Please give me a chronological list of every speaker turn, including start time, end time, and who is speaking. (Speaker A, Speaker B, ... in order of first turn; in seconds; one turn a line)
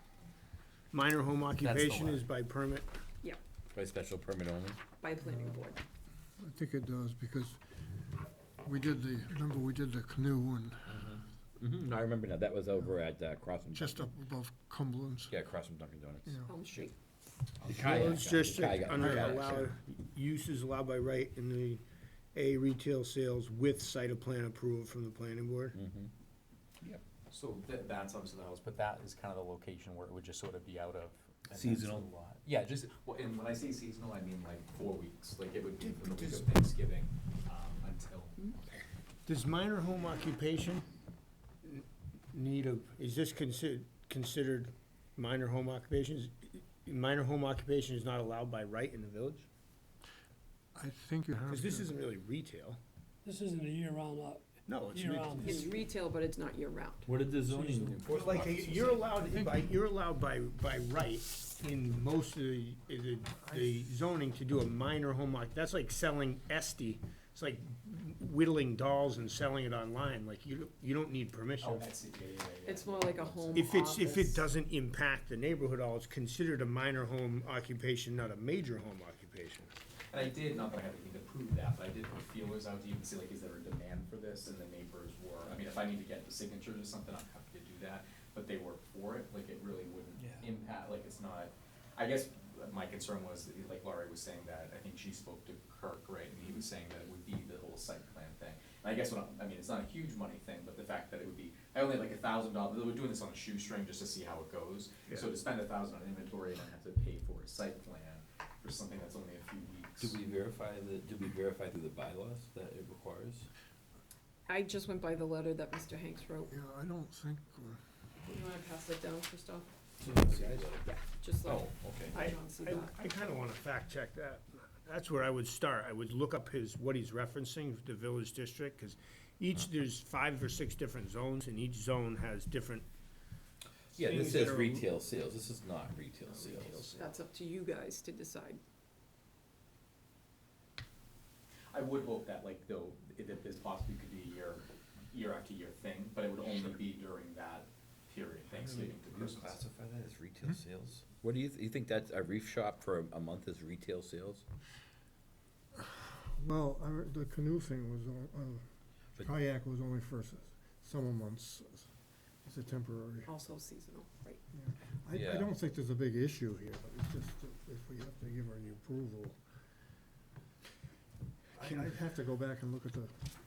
Speaker A: 0.9-2.9
Speaker B: 1.6-2.2
Speaker C: 3.7-4.8
Speaker D: 5.0-5.8
Speaker E: 5.2-5.7
Speaker E: 6.4-7.6
Speaker E: 8.6-11.1
Speaker C: 10.9-14.1
Speaker E: 13.7-15.3
Speaker C: 15.3-16.8
Speaker E: 16.2-16.5
Speaker D: 16.5-16.9
Speaker C: 17.6-19.7
Speaker A: 17.6-21.8
Speaker E: 18.9-19.7
Speaker A: 22.3-25.8
Speaker C: 25.7-26.1
Speaker B: 27.3-38.5
Speaker C: 31.5-32.1
Speaker A: 35.8-36.5
Speaker A: 39.2-40.8
Speaker A: 41.6-49.5
Speaker E: 50.7-51.9
Speaker A: 51.5-52.8
Speaker F: 53.2-55.4
Speaker A: 54.6-55.6
Speaker D: 55.4-57.1
Speaker C: 57.0-59.2
Speaker A: 58.0-71.9
Speaker E: 59.3-59.6
Speaker E: 63.4-64.0
Speaker B: 71.6-73.7
Speaker D: 72.7-74.4
Speaker A: 73.5-79.7
Speaker B: 80.1-110.2
Speaker C: 90.2-90.5
Speaker C: 110.0-113.5
Speaker D: 114.5-116.5
Speaker E: 116.5-117.8
Speaker D: 118.2-119.7
Speaker C: 120.0-120.9
Speaker A: 120.3-120.7
Speaker D: 120.8-122.9
Speaker C: 121.5-122.2
Speaker A: 122.1-132.8
Speaker C: 133.9-137.0
Speaker A: 133.9-134.9
Speaker A: 136.3-137.2
Speaker D: 137.0-138.6
Speaker B: 141.7-149.6
Speaker C: 148.6-154.4
Speaker E: 156.1-158.6
Speaker E: 159.2-161.9
Speaker E: 162.4-163.3
Speaker D: 163.3-164.4
Speaker E: 164.5-169.4
Speaker C: 165.1-165.5
Speaker E: 171.6-173.3
Speaker A: 171.6-172.0